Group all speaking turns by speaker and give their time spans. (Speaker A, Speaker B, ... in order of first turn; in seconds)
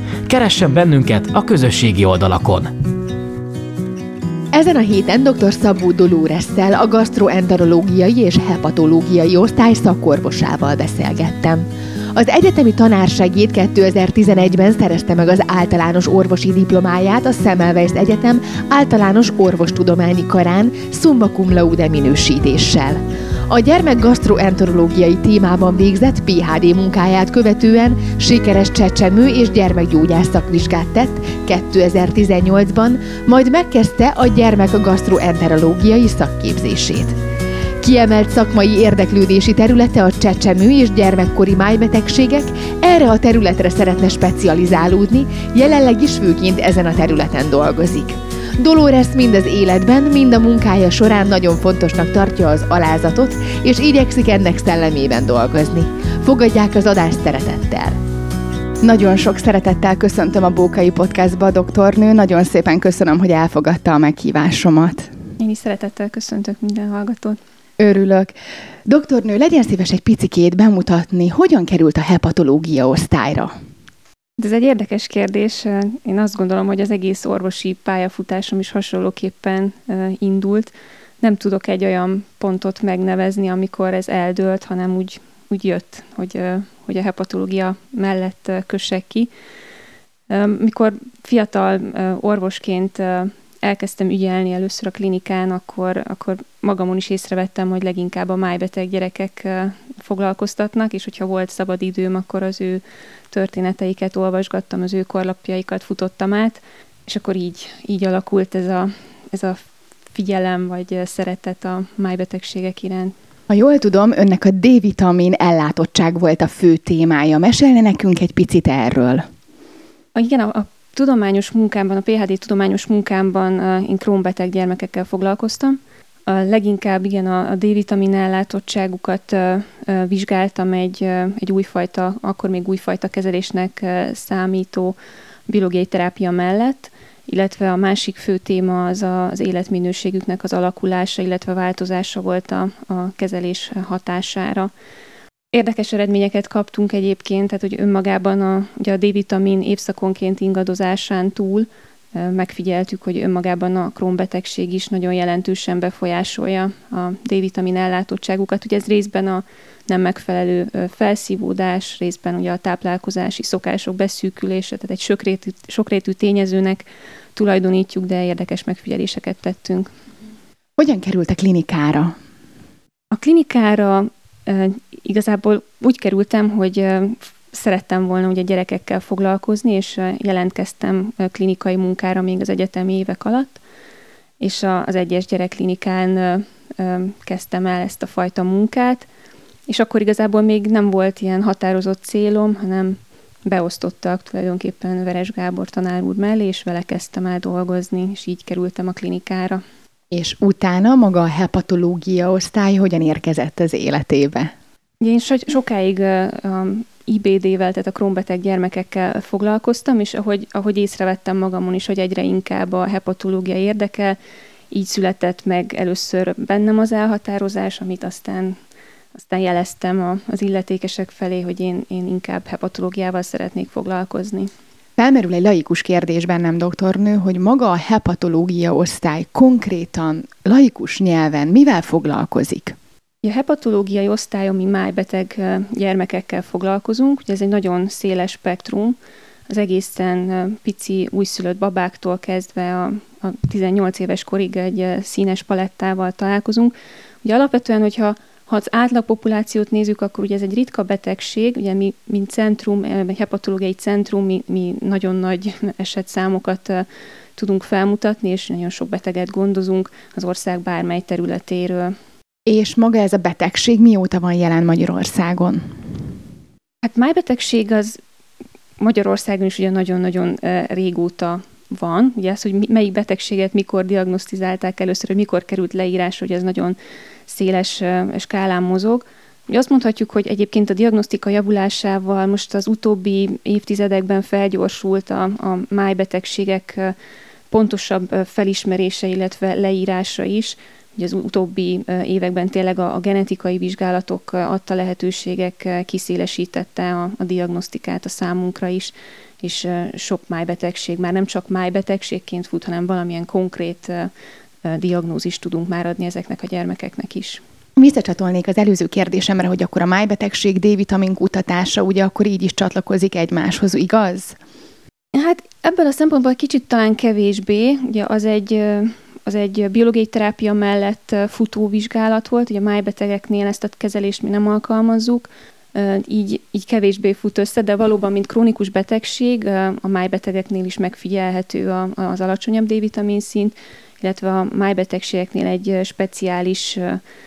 Speaker A: 0.3-2.7
Speaker B: 4.5-37.1, 37.8-58.0, 58.8-65.1, 67.8-68.3, 68.8-73.5, 113.5-119.2, 170.8-172.1, 200.1-204.5, 225.0-232.7, 262.4-265.6, 307.8-314.4
Speaker C: 65.4-67.4, 74.4-89.3, 90.3-113.1, 120.1-135.0, 135.5-144.7, 145.5-169.9, 173.1-183.6, 184.4-189.1, 189.7-199.6, 205.0-214.2, 214.7-218.5, 219.1-224.5, 233.2-239.0, 239.5-261.9, 266.8-268.0, 268.8-276.8, 277.3-286.9, 287.5-304.1, 304.6-307.4, 315.1-337.0